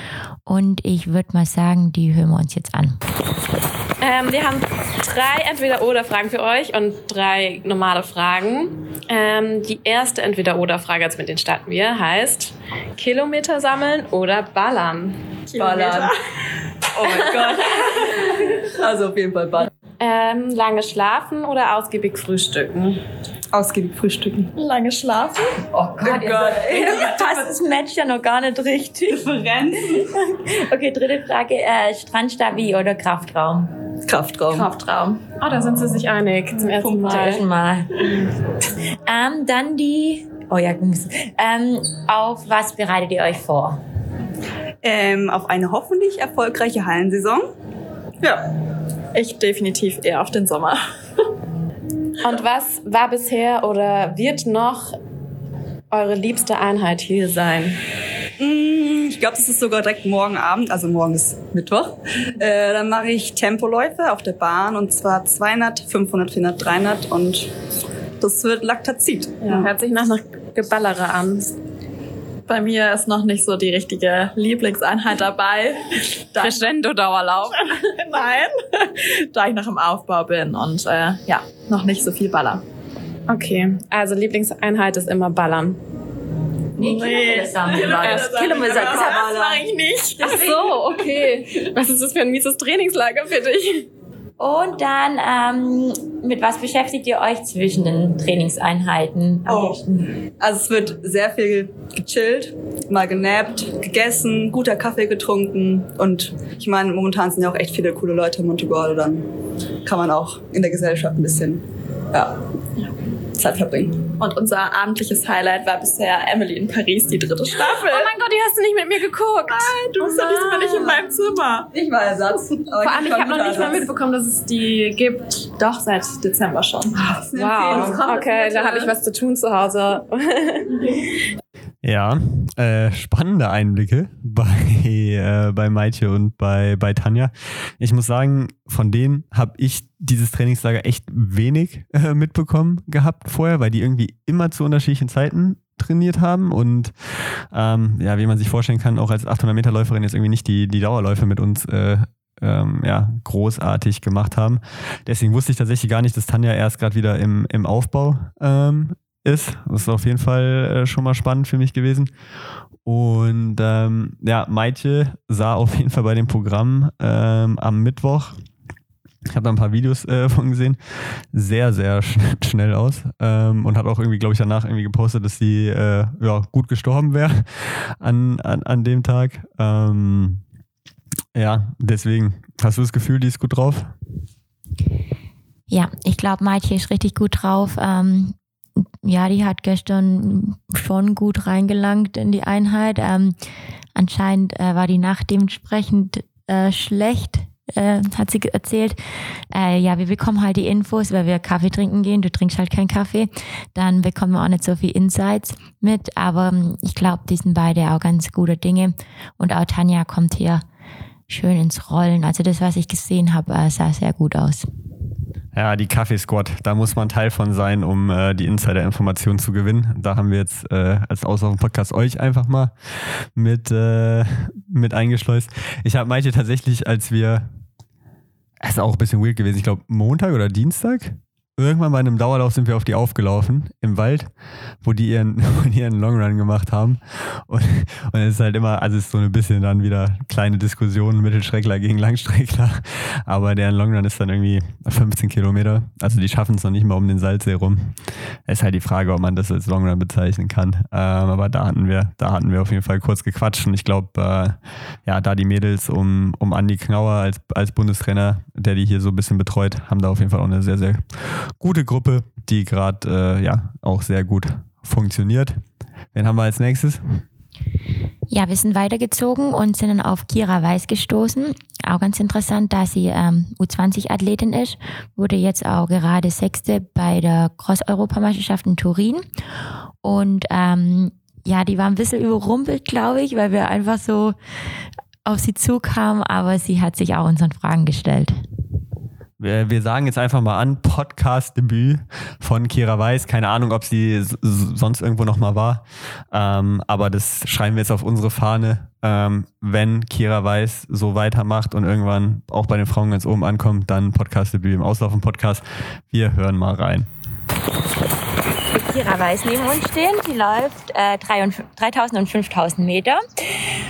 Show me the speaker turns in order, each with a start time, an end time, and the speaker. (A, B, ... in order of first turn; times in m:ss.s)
0:00.5-0:03.0 A
0:04.0-0:15.2 B
0:15.5-0:16.1 C
0:15.5-0:16.2 D
0:16.9-0:19.7 C
0:20.0-0:23.0 B
0:23.5-0:24.5 C
0:24.6-0:25.6 D
0:25.7-0:27.5 C
0:26.0-0:29.4 A
0:29.1-0:30.1 C
0:29.9-0:33.7 A
0:34.1-0:34.7 C
0:34.9-0:35.2 D
0:35.2-0:37.4 B
0:36.8-0:37.9 A
0:39.1-0:43.8 A
0:44.8-0:47.5 C
0:48.2-0:48.5 C
0:49.1-0:50.8 D
0:52.2-0:55.0 B
0:55.9-0:57.8 B
0:58.4-1:07.5 C
1:08.2-1:09.7 C
1:09.4-1:11.6 B
1:12.5-1:16.6 D
1:16.4-1:17.6 B
1:17.8-1:22.6 D
1:23.3-1:25.8 B
1:26.8-1:29.5 A
1:26.8-1:31.1 D
1:27.7-1:29.6 C
1:28.0-1:29.1 B
1:30.2-1:33.9 B
1:34.4-1:40.1 A
1:39.5-1:39.8 C
1:40.4-1:49.3 C
1:49.8-1:52.4 C
1:53.4-1:54.0 C
1:54.2-1:58.2 D
1:57.9-2:01.0 B
1:59.7-2:01.2 C
1:59.8-2:01.7 D
2:01.7-2:03.9 C
2:02.8-2:05.2 B
2:05.6-2:07.0 D
2:07.0-2:08.9 C
2:07.4-2:10.7 B
2:11.8-2:26.9 E
2:27.5-2:42.1 E
2:42.8-2:48.4 E
2:49.3-2:50.8 E
2:51.3-3:00.4 E
3:01.4-3:03.9 E
3:05.7-3:13.4 A
3:14.0-3:30.6 A
3:31.3-3:34.7 A
3:35.5-3:47.5 E
3:48.6-3:54.3 E
3:54.8-4:08.0 E
4:08.5-4:25.6 E
4:26.1-4:27.2 E
4:28.3-4:39.3 A
4:40.0-4:44.4 A
4:45.2-4:48.4 A
4:49.4-5:07.1 E
5:08.7-5:13.2 A